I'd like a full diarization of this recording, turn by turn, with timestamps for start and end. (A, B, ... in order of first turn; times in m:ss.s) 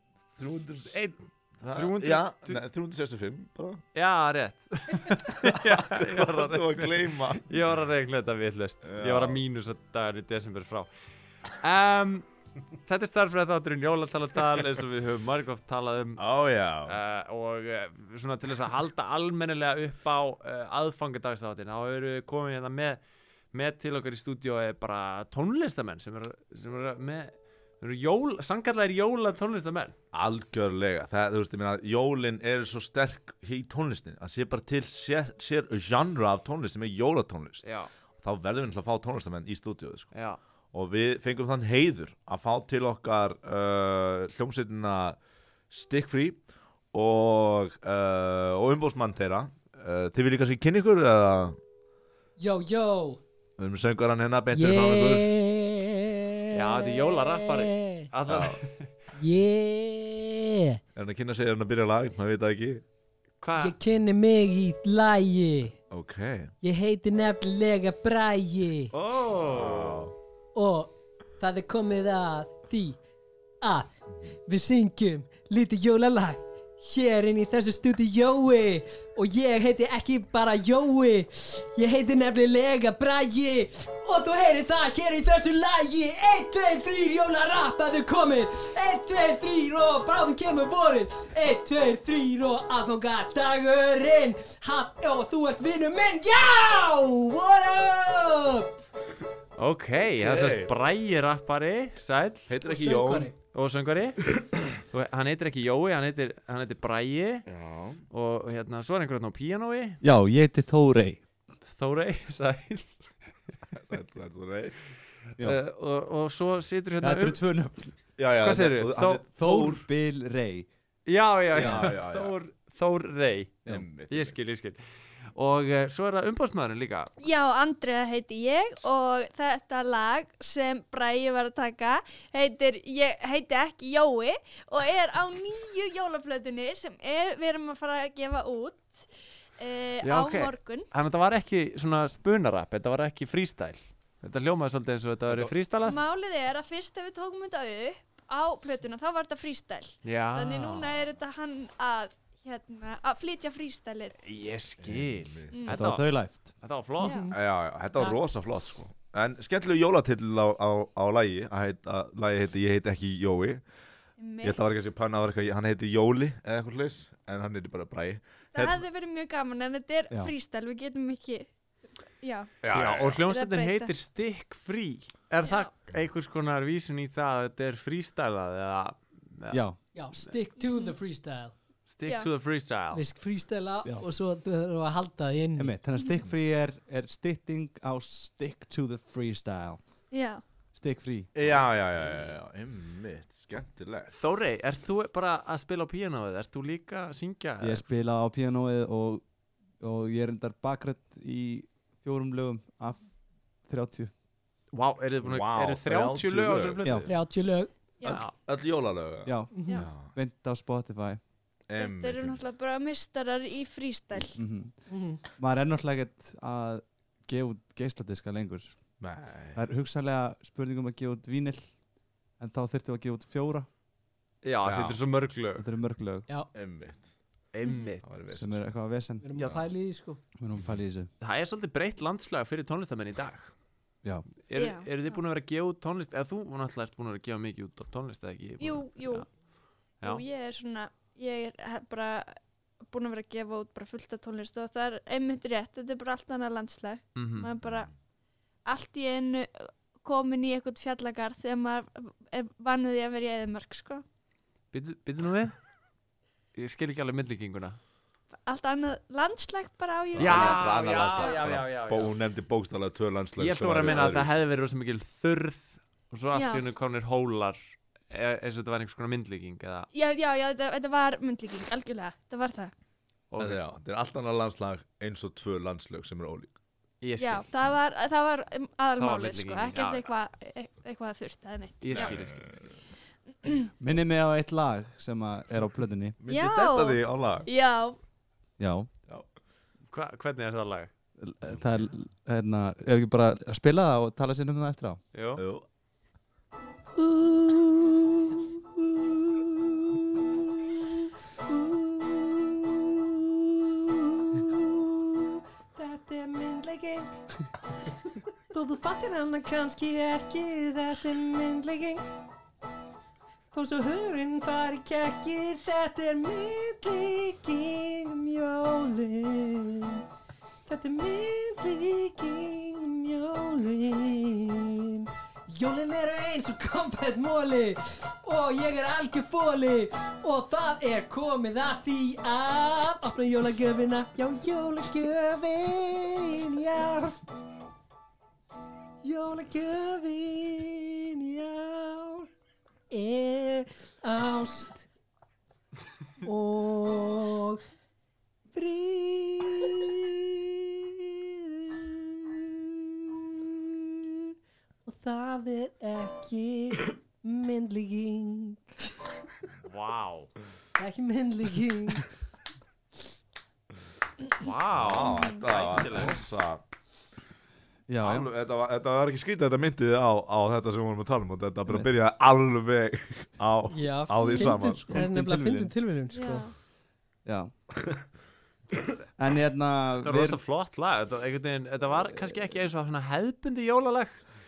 0:00.4-0:01.0 A
0:00.8-0:01.2 B
0:01.6-0:03.8 A
0:01.7-0:02.6 B
0:03.9-0:10.9 B
0:05.1-0:07.5 A
0:08.8-0:09.4 A
0:11.5-0:12.2 B
0:12.8-0:16.2 B
0:16.2-0:17.0 A
0:16.8-0:23.0 B
0:23.5-0:30.0 B
0:30.1-0:40.1 A
0:37.6-0:37.9 B
0:40.1-0:40.4 B
0:40.7-0:45.2 A
0:45.7-0:51.6 A
0:52.4-0:53.2 C
0:53.6-0:55.3 A
0:54.5-0:58.1 C
0:56.5-0:58.9 B
0:58.3-0:58.6 A
0:59.1-1:00.8 C
1:00.9-1:02.8 A
1:03.4-1:03.8 B
1:03.6-1:05.8 C
1:05.9-1:06.5 A
1:06.6-1:08.9 C
1:08.9-1:10.1 B
1:09.1-1:10.1 A
1:10.5-1:13.0 C
1:13.6-1:38.8 C
1:39.6-1:42.5 B
1:40.2-1:40.7 A
1:42.5-1:43.3 A
1:42.6-1:43.3 C
1:43.5-1:47.5 B
1:47.5-1:48.0 A
1:48.1-1:50.0 B
1:50.0-1:51.2 D
1:51.6-1:53.1 B
1:53.7-1:54.8 A
1:55.4-1:57.4 B
1:57.0-1:57.9 D
1:58.2-1:59.8 A
1:58.4-1:59.2 B
1:59.3-2:00.7 D
2:01.0-2:04.8 B
2:01.5-2:02.3 A
2:01.6-2:01.9 D
2:03.7-2:04.4 A
2:05.3-2:07.1 B
2:07.2-2:20.9 E
2:20.0-2:26.0 B
2:25.3-2:25.5 A
2:25.8-2:34.2 E
2:30.0-2:30.9 B
2:34.2-2:37.2 B
2:34.8-2:35.6 A
2:35.5-2:35.8 E
2:35.7-2:36.5 D
2:37.0-2:37.4 C
2:37.0-2:37.3 E
2:37.3-2:43.6 A
2:44.2-2:44.6 E
2:44.4-2:48.8 A
2:48.5-2:51.5 E
2:52.2-2:52.5 E
2:52.6-2:53.2 A
2:52.7-2:59.6 B
2:53.2-2:53.9 E
2:55.4-2:55.7 E
2:59.5-2:59.8 D
2:59.9-3:01.5 C
3:00.6-3:00.9 E
3:01.9-3:03.0 B
3:02.0-3:02.3 E
3:02.9-3:05.7 C
3:05.6-3:09.8 D
3:10.1-3:10.4 E
3:10.7-3:11.3 D
3:11.3-3:14.1 A
3:14.1-3:17.8 B
3:17.6-3:19.2 D
3:19.8-3:23.1 D
3:23.6-3:24.1 D
3:24.7-3:27.1 B
3:25.2-3:27.1 A
3:27.1-3:27.7 C
3:28.0-3:30.1 A
3:28.0-3:28.3 B
3:29.2-3:31.2 D
3:29.5-3:29.8 C
3:31.7-3:32.4 A
3:31.8-3:34.4 E
3:34.4-3:34.7 D
3:34.9-3:35.2 C
3:35.4-3:38.8 D
3:39.0-3:39.6 A
3:39.5-3:41.7 D
3:42.4-3:43.7 D
3:44.4-3:45.7 B
3:44.6-3:45.0 A
3:45.6-3:46.3 D
3:46.5-3:47.0 A
3:47.5-3:48.1 B
3:47.6-3:48.0 E
3:48.0-3:48.7 A
3:48.3-3:49.2 D
3:49.2-3:50.2 C
3:50.4-3:51.1 D
3:51.2-3:53.5 B
3:54.5-3:59.2 B
3:54.5-3:54.9 E
3:58.6-3:59.3 E
4:00.0-4:07.9 E
4:07.2-4:07.5 B
4:08.6-4:14.0 E
4:14.7-4:15.6 B
4:16.5-4:17.8 B
4:18.4-4:21.4 E
4:20.1-4:24.3 A
4:20.2-4:22.2 B
4:23.4-4:29.9 B
4:26.3-4:26.6 E
4:29.9-4:32.7 E
4:33.3-4:33.6 B
4:33.4-4:36.5 A
4:37.0-4:37.5 B
4:37.2-4:42.2 E
4:39.0-4:40.1 B
4:41.8-4:42.7 B
4:41.9-4:42.6 A
4:43.8-4:46.2 D
4:46.2-4:47.5 A
4:46.3-4:48.0 E
4:48.6-4:48.9 D
4:49.9-4:50.9 B
4:51.2-4:55.0 D
4:55.1-4:55.4 B
4:55.4-4:55.6 A
4:57.0-5:07.1 C
5:08.5-5:12.0 C
5:13.5-5:20.0 C
5:20.6-5:37.2 C
5:39.0-5:42.3 C
5:42.9-5:44.9 C
5:46.2-5:47.6 C
5:48.5-5:54.3 C
5:54.8-5:58.6 C
5:59.6-6:00.3 B
6:00.8-6:02.1 C
6:04.4-6:06.2 B
6:04.7-6:06.6 A
6:07.9-6:08.3 D
6:08.0-6:14.9 A
6:13.7-6:16.5 C
6:14.9-6:15.7 D
6:16.1-6:16.5 E
6:17.2-6:17.5 D
6:19.2-6:20.4 D
6:20.0-6:24.2 B